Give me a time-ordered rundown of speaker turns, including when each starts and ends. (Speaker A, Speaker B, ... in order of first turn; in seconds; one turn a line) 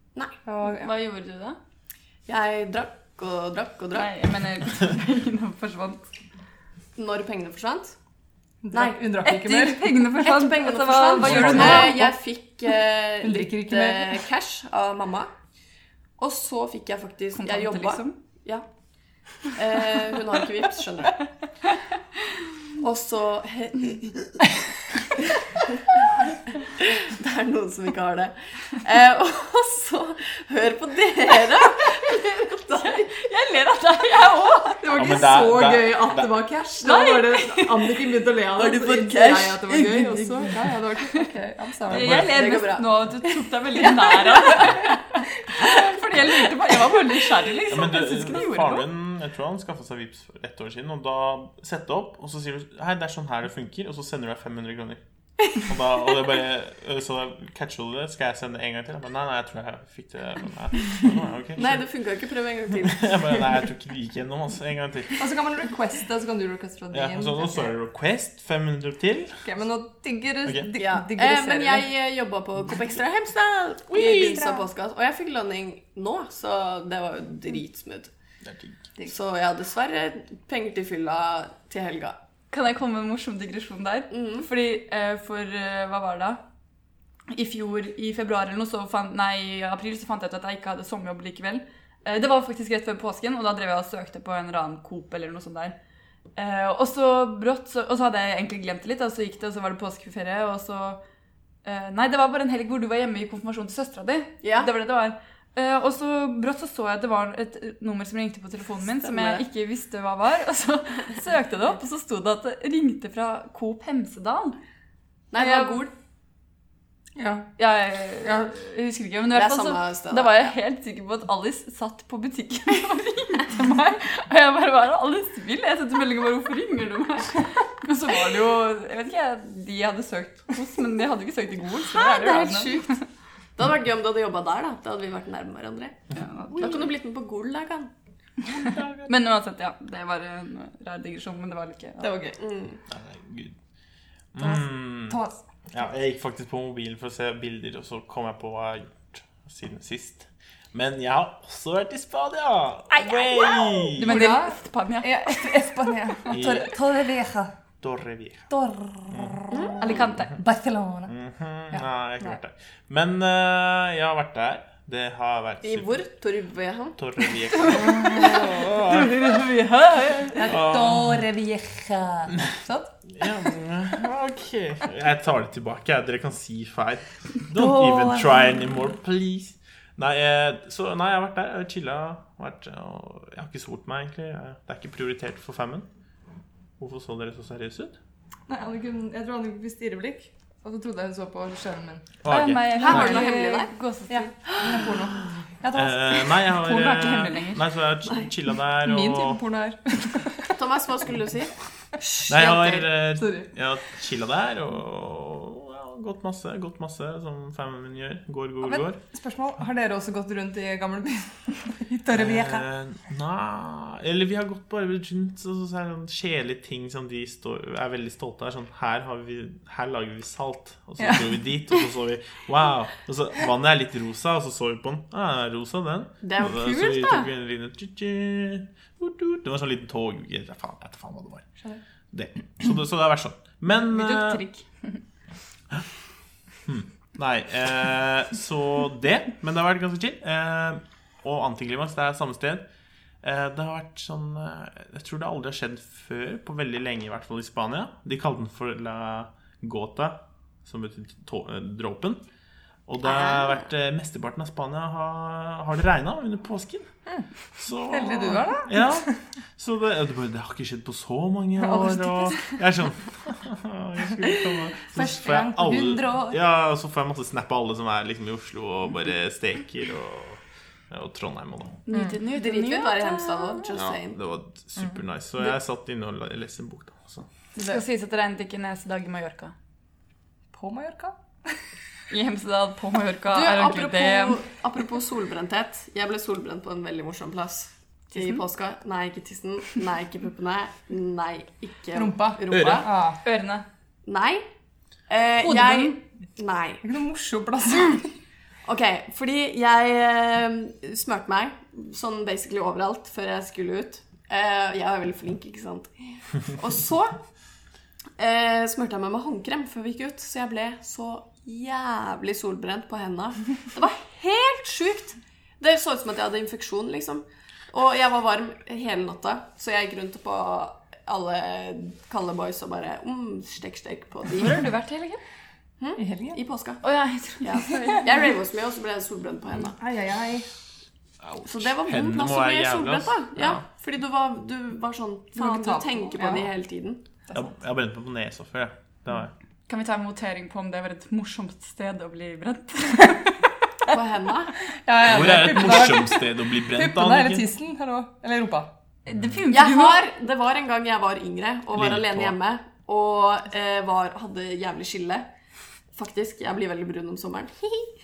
Speaker A: 0.4-0.9
Speaker B: 0.6-1.6
Speaker C: 2.3-4.1
Speaker B: 3.9-6.0
Speaker C: 7.0-8.0
Speaker A: 8.6-12.1
Speaker B: 9.2-12.1
Speaker C: 10.2-15.3
Speaker D: 11.2-11.9
Speaker A: 13.2-14.2
Speaker C: 16.2-18.6
Speaker B: 17.3-18.2
Speaker C: 19.5-21.2
Speaker C: 22.8-24.4
Speaker C: 25.4-33.1
Speaker B: 33.0-34.8
Speaker A: 34.8-42.3
Speaker D: 34.9-36.3
Speaker B: 36.8-37.9
Speaker C: 38.5-40.6
Speaker B: 41.9-48.9
Speaker D: 41.9-42.4
Speaker C: 42.1-44.7
Speaker A: 44.1-44.9
Speaker A: 45.5-46.3
Speaker D: 47.7-55.0
Speaker D: 55.5-61.8
Speaker C: 61.6-63.5
Speaker D: 62.8-65.3
Speaker A: 65.2-67.7
Speaker D: 66.9-69.4
Speaker A: 69.4-71.9
Speaker C: 70.7-78.1
Speaker D: 73.9-74.4
Speaker A: 74.0-74.7
Speaker D: 78.4-78.8
Speaker C: 79.0-82.2
Speaker B: 82.5-86.4
Speaker C: 84.1-84.5
Speaker B: 87.3-95.8
Speaker B: 96.3-101.0
Speaker B: 101.6-114.6
Speaker C: 104.4-104.7
Speaker C: 109.0-109.4
Speaker C: 115.3-115.9
Speaker B: 115.3-115.9
Speaker A: 117.2-117.5
Speaker B: 117.6-133.0
Speaker C: 119.3-120.5
Speaker C: 131.9-132.9
Speaker C: 133.6-136.0
Speaker B: 136.1-136.9
Speaker C: 136.5-137.9
Speaker D: 138.5-139.1
Speaker B: 139.1-142.1
Speaker A: 142.0-142.4
Speaker C: 142.4-142.8
Speaker D: 142.9-143.6
Speaker D: 144.3-145.2
Speaker A: 144.4-145.4
Speaker D: 145.7-154.2
Speaker B: 152.9-156.2
Speaker A: 154.0-157.5
Speaker D: 156.3-156.7
Speaker D: 157.8-158.5
Speaker A: 158.5-161.1
Speaker D: 159.1-159.4
Speaker C: 159.5-160.0
Speaker B: 159.8-160.3
Speaker D: 161.1-166.0
Speaker A: 161.7-162.4
Speaker C: 165.6-167.0
Speaker D: 167.0-169.1
Speaker B: 167.6-170.6
Speaker A: 170.3-172.9
Speaker D: 170.5-171.2
Speaker D: 173.1-185.9
Speaker A: 177.6-178.0
Speaker D: 186.8-188.0
Speaker A: 188.5-192.1
Speaker D: 192.2-193.2
Speaker B: 192.3-195.0
Speaker C: 192.7-193.7
Speaker A: 193.0-193.5
Speaker A: 194.1-196.6
Speaker D: 195.7-199.4
Speaker B: 196.5-197.6
Speaker A: 198.8-200.6
Speaker C: 200.5-201.5
Speaker C: 202.1-202.8
Speaker D: 202.3-209.0
Speaker A: 203.1-203.5
Speaker A: 208.6-212.7
Speaker D: 212.1-231.4
Speaker C: 226.2-227.3
Speaker D: 232.1-234.4
Speaker B: 233.9-235.0
Speaker D: 236.7-242.6
Speaker D: 243.2-252.2
Speaker D: 252.9-256.9
Speaker C: 253.0-253.6
Speaker D: 257.5-271.8
Speaker A: 257.9-259.1
Speaker A: 261.6-262.6
Speaker A: 264.8-266.4
Speaker B: 271.9-273.7
Speaker C: 272.3-274.2
Speaker D: 273.7-277.3
Speaker B: 277.6-279.5
Speaker A: 280.5-281.5
Speaker B: 282.1-284.4
Speaker C: 283.3-292.9
Speaker B: 288.1-288.4
Speaker A: 291.9-293.2
Speaker D: 292.5-292.9
Speaker B: 293.2-293.6
Speaker C: 294.1-294.4
Speaker C: 295.1-296.8
Speaker B: 295.4-296.0
Speaker A: 296.8-298.1
Speaker C: 298.6-307.2
Speaker C: 308.2-324.7
Speaker B: 324.4-325.2
Speaker C: 325.8-326.8
Speaker A: 326.0-326.4
Speaker B: 326.8-328.0
Speaker C: 327.4-329.8
Speaker A: 329.6-330.5
Speaker D: 331.2-333.6
Speaker C: 331.4-337.0
Speaker A: 335.4-336.5
Speaker D: 337.3-339.3
Speaker B: 339.7-343.3
Speaker C: 343.9-344.6
Speaker A: 344.7-348.7
Speaker D: 345.0-347.4
Speaker B: 349.1-350.0
Speaker D: 349.1-349.4
Speaker C: 349.5-355.3
Speaker D: 351.7-352.4
Speaker C: 355.9-357.9